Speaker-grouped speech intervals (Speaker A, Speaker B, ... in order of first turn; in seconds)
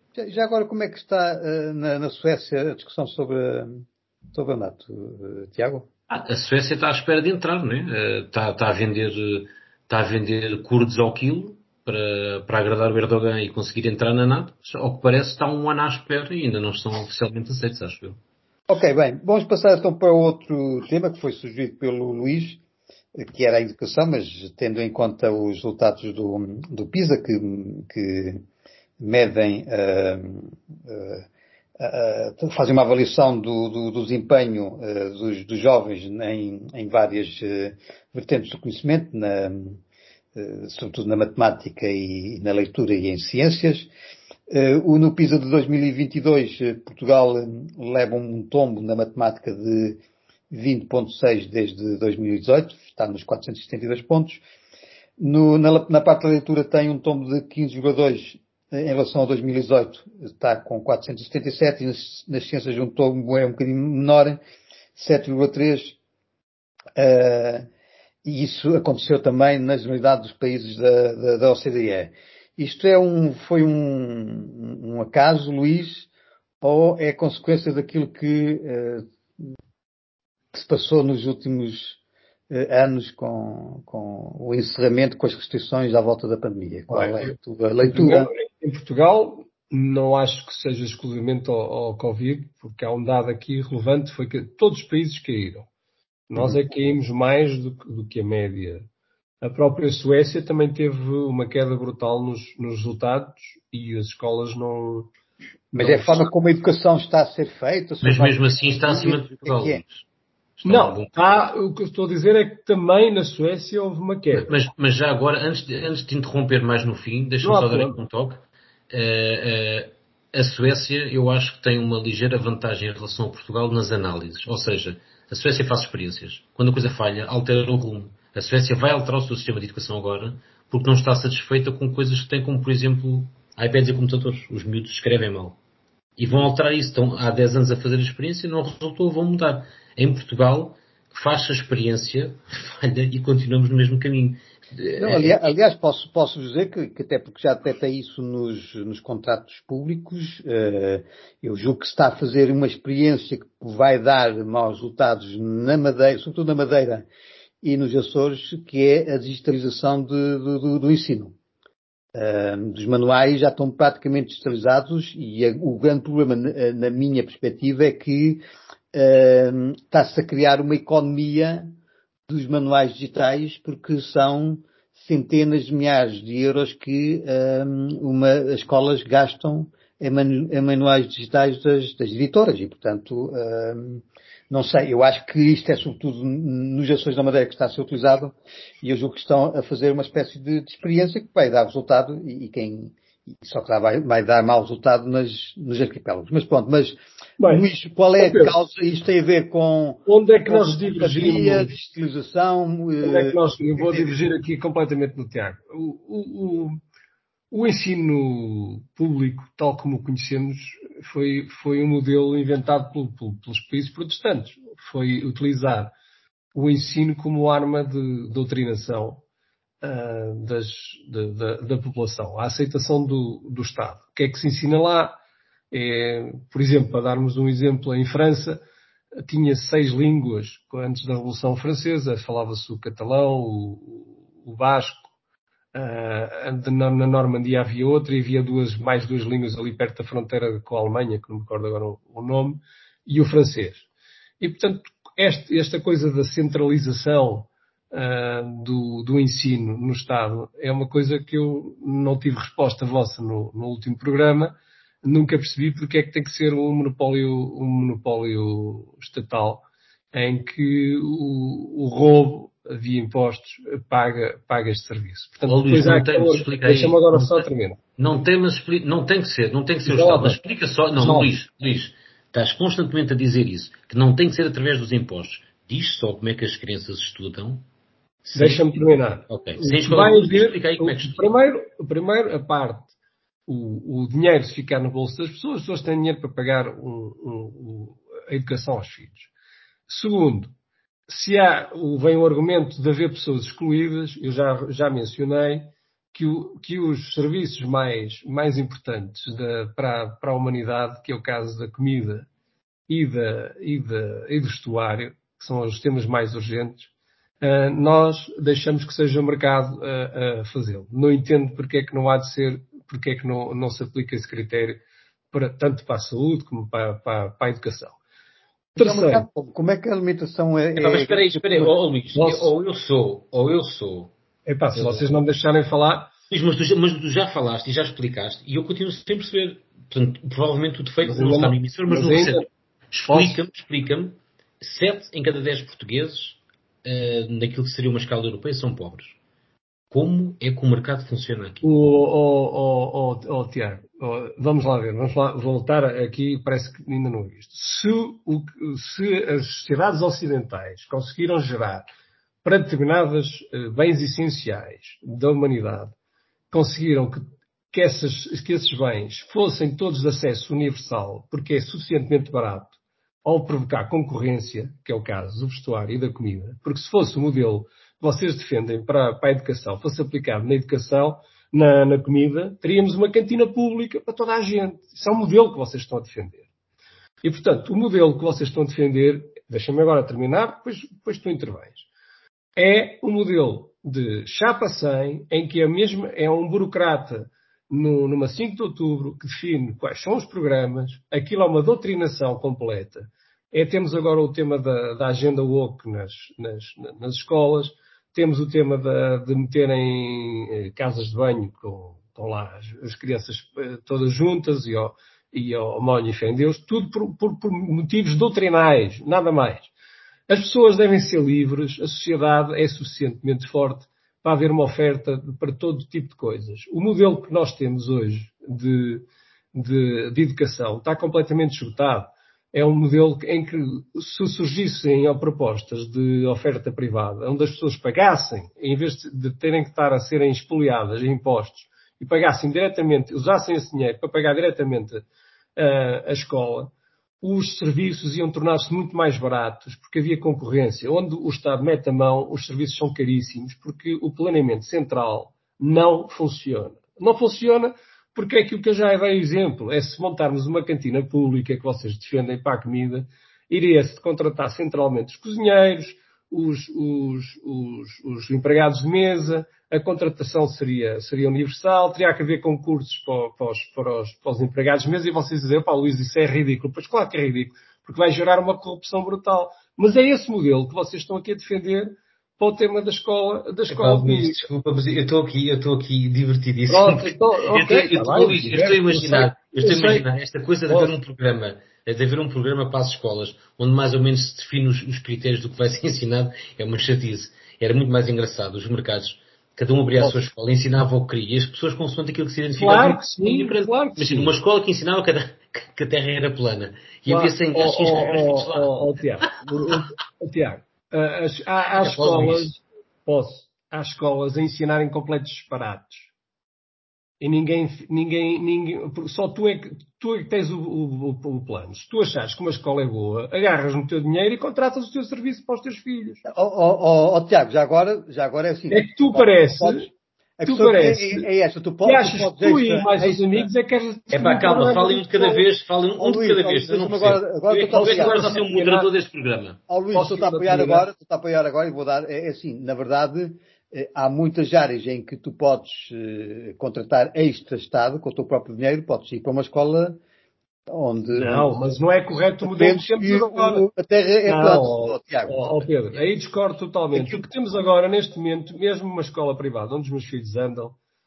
Speaker A: 0.2-5.9, 18.7-22.6, 23.2-28.4, 29.0-31.3, 31.8-39.8, 40.4-43.9, 44.5-54.4, 55.2-64.4, 65.0-66.0, 67.0-67.7, 68.2-76.1, 76.6-79.1, 80.5-82.0, 82.5-88.3, 105.7-109.8, 145.0-157.1, 157.6-161.3, 162.2-171.7, 172.3-204.2, 318.8-321.7, 516.3-523.5, 526.0-528.2, 529.7-540.0, 540.7-541.6, 542.4-545.7, 547.0-547.2
Speaker B: 6.1-18.2, 108.0-110.0, 110.6-111.2, 114.3-135.6, 136.2-145.5, 265.4-267.5, 268.0-277.7, 278.2-281.2, 320.8-324.1, 324.8-325.1, 326.3-339.2, 339.9-341.6, 473.7-498.7, 499.3-499.8, 501.8-502.5, 524.1-529.6
Speaker C: 86.9-87.3, 87.9-95.7, 96.3-98.8, 99.4-105.1, 105.8-106.2, 110.7-114.5, 117.4-118.0, 197.4-197.7, 198.2-198.6, 200.1-201.7, 203.0-206.8, 207.5-215.9, 216.5-219.2, 219.8-225.2, 225.7-228.6, 229.3-235.1, 235.7-243.8, 244.4-267.8, 269.9-270.4, 271.0-271.3, 278.4-282.9, 283.5-289.3, 289.9-290.5, 291.1-302.3, 302.9-306.9, 307.4-318.0, 318.8-319.3, 322.1-322.5, 324.5-326.1, 331.0-332.4, 333.1-333.4, 341.6-351.9, 352.4-355.9, 356.5-376.4, 377.2-381.9, 382.6-409.7, 410.3-435.0, 435.6-474.4, 476.7-480.1, 480.7-480.9, 492.6-494.4, 497.1-506.1, 507.2-516.2, 518.7-519.9, 520.4-521.3, 521.8-525.5, 527.5-528.9, 529.9-530.9, 541.1-543.7, 544.3-550.8